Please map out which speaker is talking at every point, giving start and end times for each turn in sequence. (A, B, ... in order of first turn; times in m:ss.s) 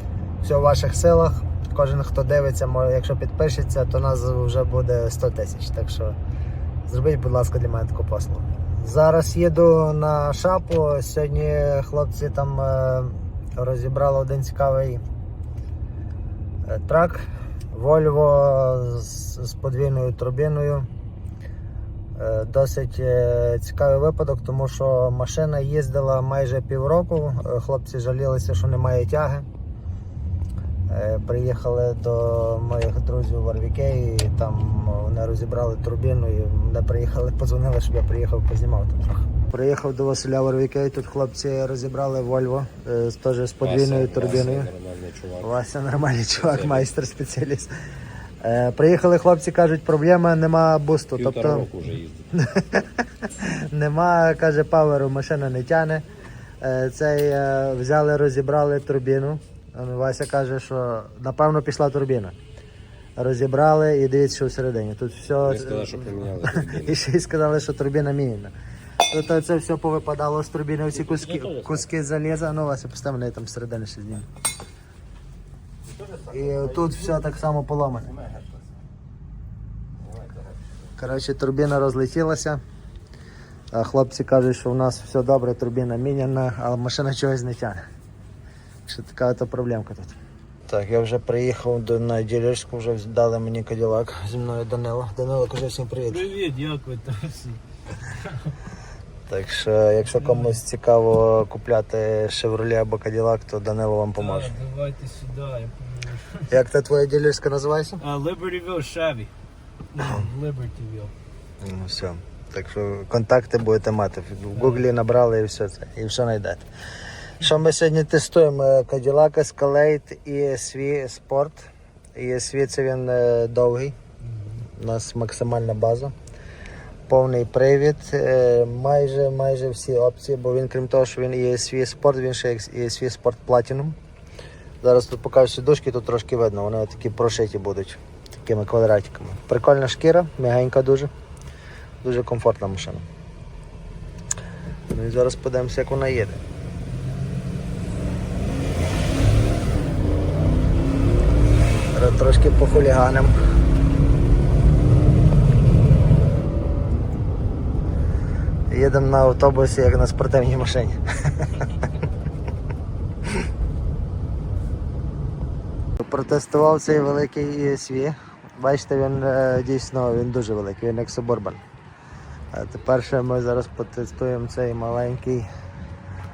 0:00.4-0:06.2 A
0:06.9-0:15.0 A
0:16.6-0:20.9 A
0:22.1-0:29.5 A
0:30.9-0:44.7 A
0:43.6-0:45.6 B
0:45.4-0:47.7 A
0:46.4-0:46.9 B
0:48.4-0:51.7 A
0:51.1-0:52.3 B
0:52.3-0:56.0 A
0:56.6-1:02.4 A
1:03.2-1:08.5 A
1:05.3-1:07.0 B
1:09.1-1:14.3 A
1:11.1-1:11.8 B
1:16.3-1:18.2 A
1:21.0-1:22.6 A
1:23.7-1:27.8 A
1:28.8-1:36.2 A
1:36.1-1:38.5 C
1:39.3-1:44.6 A
1:40.2-1:40.5 C
1:44.2-1:46.5 C
1:46.5-1:48.0 A
1:48.0-1:49.3 C
1:49.9-1:51.1 C
1:51.6-1:56.7 A
1:57.4-2:04.0 A
2:04.8-2:06.1 A
2:07.1-2:14.0 A
2:14.8-2:21.1 A
2:22.0-2:23.0 A
2:24.9-2:26.4 A
2:31.9-2:33.4 A
2:38.7-2:41.7 A
2:46.0-2:51.6 A
2:52.5-2:55.5 A